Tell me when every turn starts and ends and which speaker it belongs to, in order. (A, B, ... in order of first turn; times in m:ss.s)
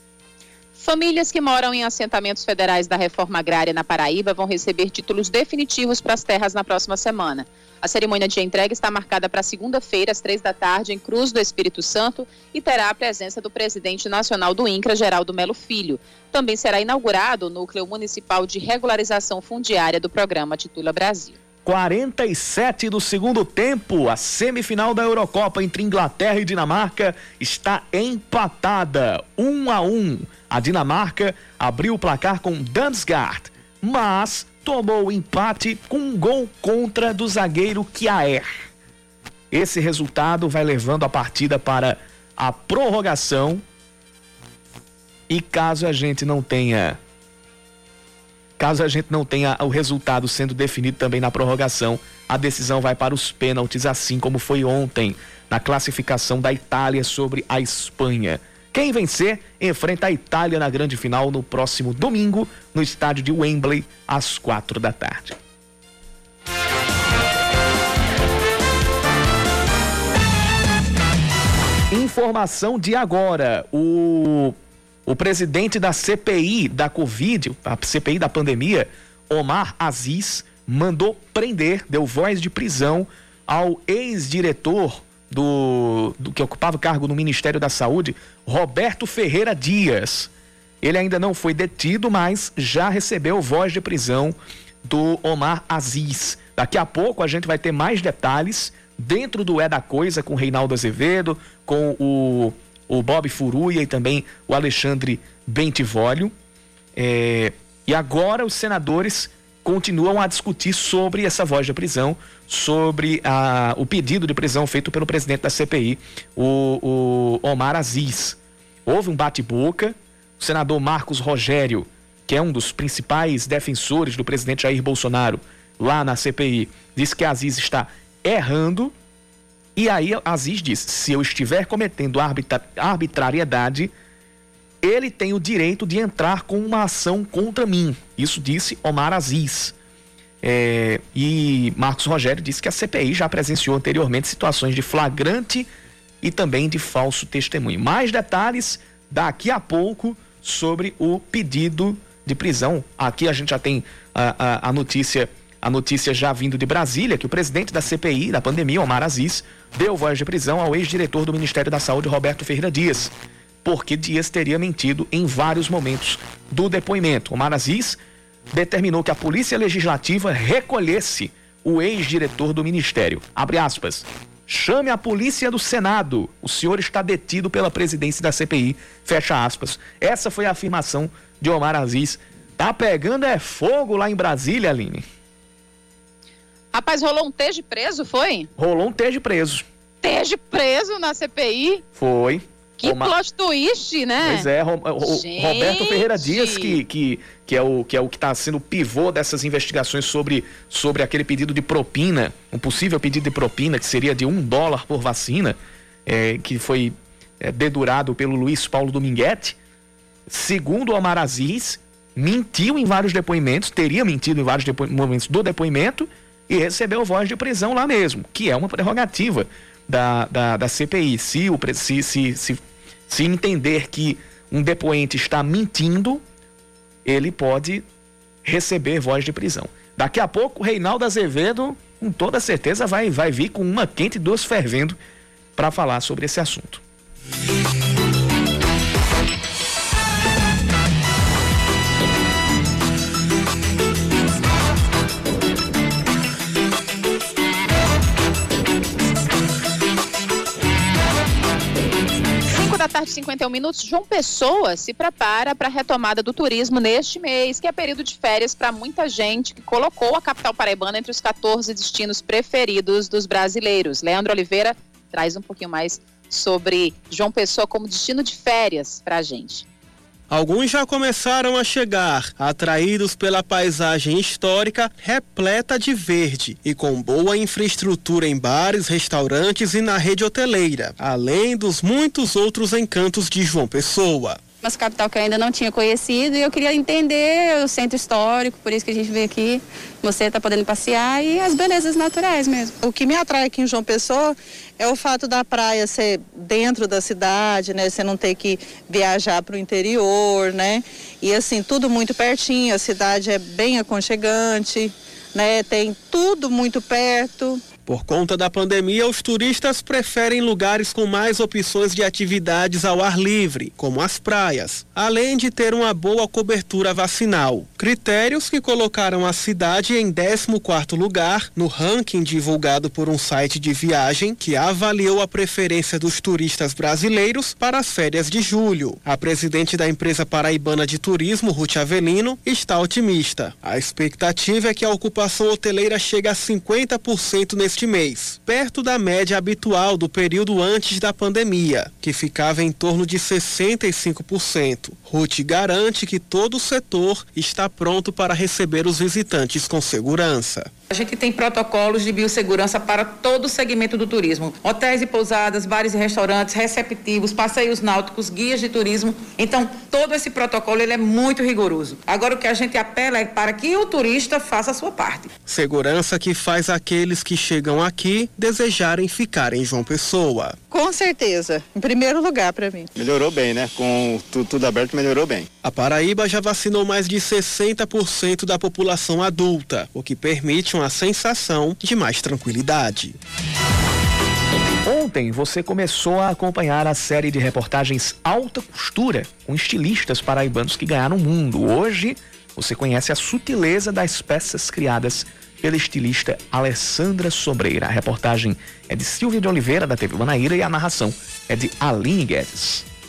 0:00.8-0:21.4 A
0:21.6-0:38.4 B
0:39.5-0:43.6 B
0:45.3-0:47.0 B
0:48.6-1:05.4 B
1:11.9-1:30.3 B
1:30.8-1:46.3 B
1:47.0-2:08.9 B
2:09.8-2:13.9 B
2:14.8-2:19.7 B
2:20.4-2:25.7 B
2:26.2-2:43.1 B
2:43.6-2:48.0 B
2:48.5-3:05.0 B
3:06.7-3:08.5 A
3:08.6-3:09.6 B
3:10.0-3:11.8 A
3:11.9-3:13.1 B
3:12.8-3:14.5 A
3:14.2-3:29.6 B
3:15.0-3:16.8 A
3:30.3-3:46.2 B
3:47.0-3:47.8 B
3:48.4-3:55.0 B
3:55.6-3:56.8 B
4:12.5-4:29.6 A
4:30.3-4:44.4 C
4:44.6-4:52.8 D
4:52.8-5:07.6 E
5:07.8-5:50.7 C
5:50.9-6:05.3 F
6:05.5-6:10.6 C
6:10.7-6:12.9 E
6:13.0-6:15.4 G
6:15.6-6:23.1 C
6:24.8-6:42.8 B